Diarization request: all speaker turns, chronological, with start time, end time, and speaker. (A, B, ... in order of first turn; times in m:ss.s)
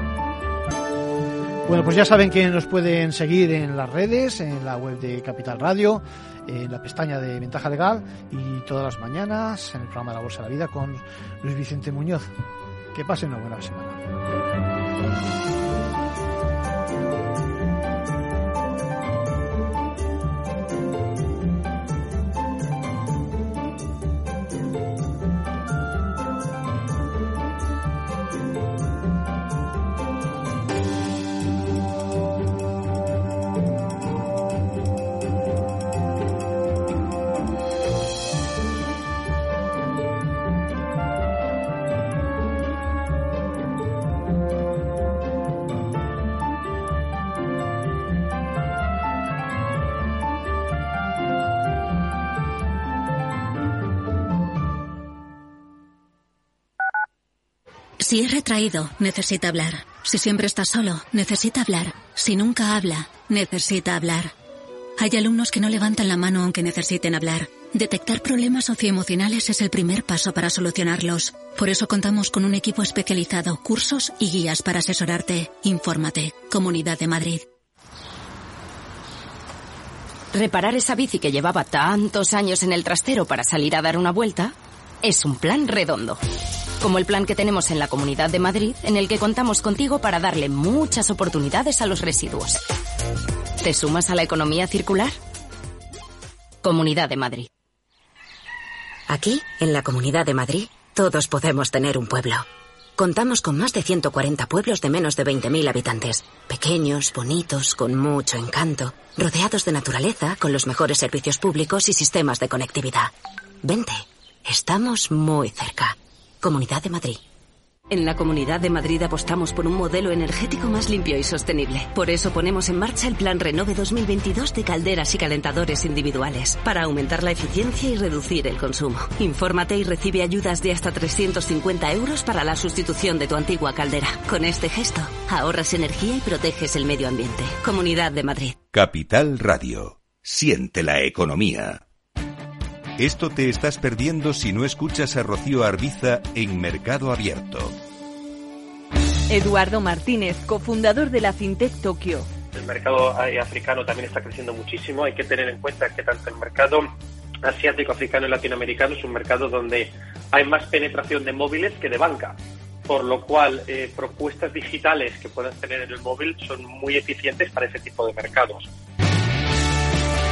0:01.7-0:12.3 A
0:12.9-0:14.0 A
0:58.0-1:04.3 B
1:05.0-1:17.4 B
1:20.3-1:26.2 C
1:26.8-1:32.6 C
1:33.6-1:35.2 C
1:36.6-1:37.5 C
1:39.1-1:42.5 D
1:43.0-1:53.1 D
1:53.6-1:57.2 D
1:57.9-2:18.6 E
2:18.7-2:21.8 F
2:23.0-2:27.7 F
2:29.3-2:32.3 G
2:32.5-2:36.9 H
2:37.4-2:48.7 H